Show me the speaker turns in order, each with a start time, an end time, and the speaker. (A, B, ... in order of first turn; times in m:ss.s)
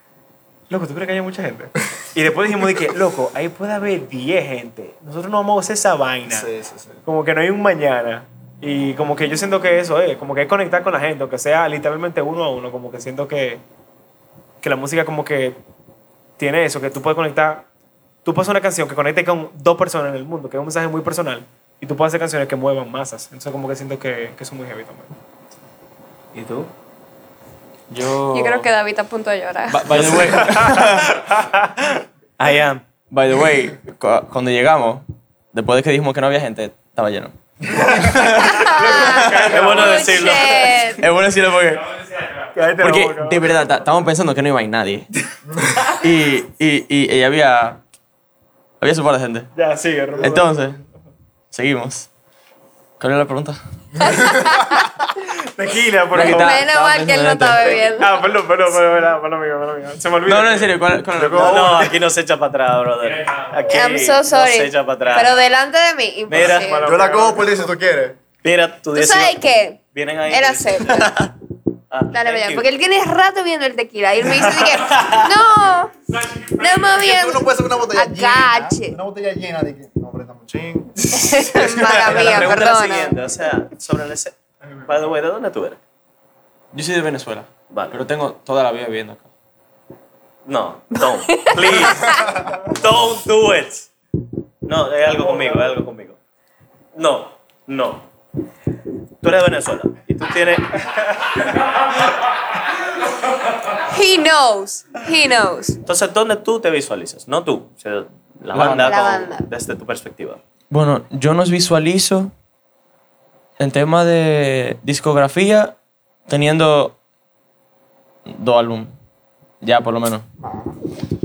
0:00.7-0:06.5 A
0:06.3-0:07.0 B
0:07.0-0:13.6 A
0:14.6-0:15.6 A
0:16.4-0:17.7 A
0:18.2-0:25.1 A
0:26.3-0:26.7 C
0:27.9-0:28.7 D
0:28.3-0:30.2 E
0:29.7-0:31.2 D
0:30.4-0:32.0 A
0:32.4-0:32.8 C
0:33.1-0:39.7 D
0:38.3-0:41.0 E
0:38.6-0:40.6 A
0:39.4-0:40.9 C
0:41.0-0:41.9 D
0:42.5-0:43.6 A
0:42.8-0:45.1 D
0:45.5-0:45.8 B
0:46.0-0:47.8 D
0:48.8-0:49.5 D
0:49.6-0:50.5 A
0:50.2-0:50.8 D
0:51.5-0:52.1 D
0:53.0-0:54.1 D
0:54.0-0:54.9 E
0:55.2-0:56.6 A
0:56.1-0:57.8 D
0:56.2-0:58.1 E
0:57.8-1:00.8 A
1:00.2-1:01.6 D
1:01.1-1:02.0 B
1:01.3-1:05.4 C
1:03.7-1:06.8 E
1:06.3-1:06.8 C
1:06.3-1:07.7 A
1:06.8-1:08.2 B
1:08.4-1:11.2 C
1:08.9-1:11.2 E
1:11.9-1:12.6 C
1:12.1-1:15.9 E
1:14.6-1:15.3 C
1:16.5-1:19.0 E
1:16.9-1:22.1 B
1:21.2-1:23.2 E
1:21.6-1:22.4 D
1:21.8-1:24.4 C
1:24.9-1:25.8 C
1:26.7-1:29.3 D
1:27.7-1:28.0 C
1:30.5-1:33.9 C
1:31.0-1:32.3 E
1:34.7-1:36.2 C
1:36.9-1:38.1 C
1:39.2-1:41.4 C
1:43.9-1:45.8 E
1:45.9-1:50.4 C
1:48.5-1:49.0 D
1:48.8-1:49.5 E
1:50.7-1:52.3 D
1:53.6-1:55.8 D
1:56.3-1:57.0 D
1:58.3-1:58.9 D
1:59.6-2:00.3 D
2:00.4-2:00.8 B